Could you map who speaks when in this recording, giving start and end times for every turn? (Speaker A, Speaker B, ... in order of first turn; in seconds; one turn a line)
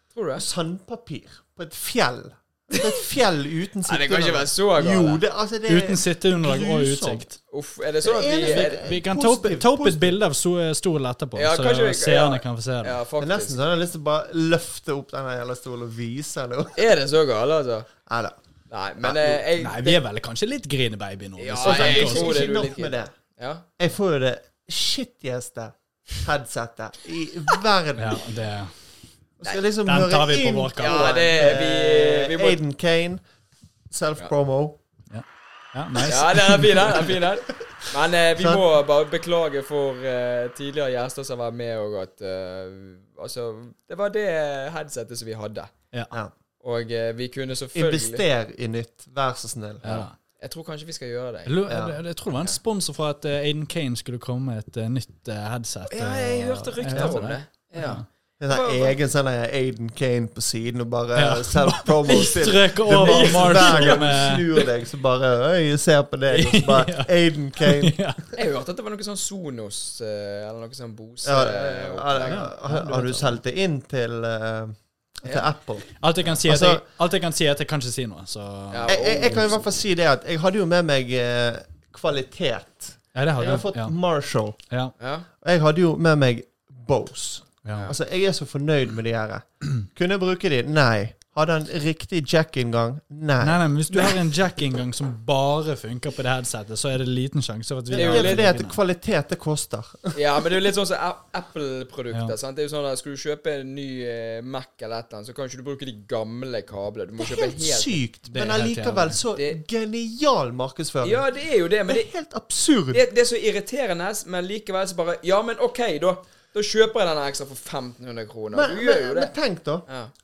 Speaker A: 0.1-0.5
Speaker B: 0.3-7.3
Speaker A: 3.9-5.2
Speaker C: 5.7-7.4
Speaker A: 7.5-8.8
Speaker B: 8.0-10.2
Speaker C: 8.6-13.0
Speaker A: 11.3-13.6
Speaker B: 13.2-16.9
Speaker A: 16.8-17.9
Speaker B: 18.1-18.4
Speaker A: 18.7-20.0
Speaker B: 19.0-19.4
Speaker C: 19.6-22.6
Speaker A: 21.4-23.7
Speaker B: 21.6-23.1
Speaker B: 23.8-28.2
Speaker C: 28.0-28.7
Speaker B: 29.4-33.2
Speaker C: 29.9-31.2
Speaker A: 30.8-32.6
Speaker B: 33.9-34.8
Speaker C: 35.1-37.1
Speaker A: 36.0-45.7
Speaker B: 38.4-38.6
Speaker A: 46.6-48.2
Speaker B: 47.8-50.1
Speaker C: 49.8-50.1
Speaker A: 49.9-51.5
Speaker C: 51.5-58.1
Speaker B: 51.7-52.0
Speaker A: 55.9-59.0
Speaker B: 56.9-57.2
Speaker B: 58.4-68.0
Speaker C: 61.1-64.5
Speaker A: 62.1-64.7
Speaker C: 66.3-68.2
Speaker A: 68.3-72.5
Speaker B: 71.2-75.9
Speaker C: 72.2-73.4
Speaker C: 76.0-79.3
Speaker B: 76.4-76.8
Speaker A: 78.7-79.6
Speaker B: 78.9-84.6
Speaker C: 83.2-84.0
Speaker A: 85.0-85.3
Speaker B: 85.4-93.6
Speaker C: 87.6-87.9
Speaker C: 93.4-98.8
Speaker B: 97.9-100.2
Speaker A: 97.9-98.5
Speaker A: 100.1-108.0
Speaker B: 107.2-111.2
Speaker C: 108.3-109.2
Speaker A: 111.0-112.1
Speaker B: 111.9-113.0
Speaker A: 112.9-119.3
Speaker B: 118.5-119.9
Speaker A: 119.9-120.1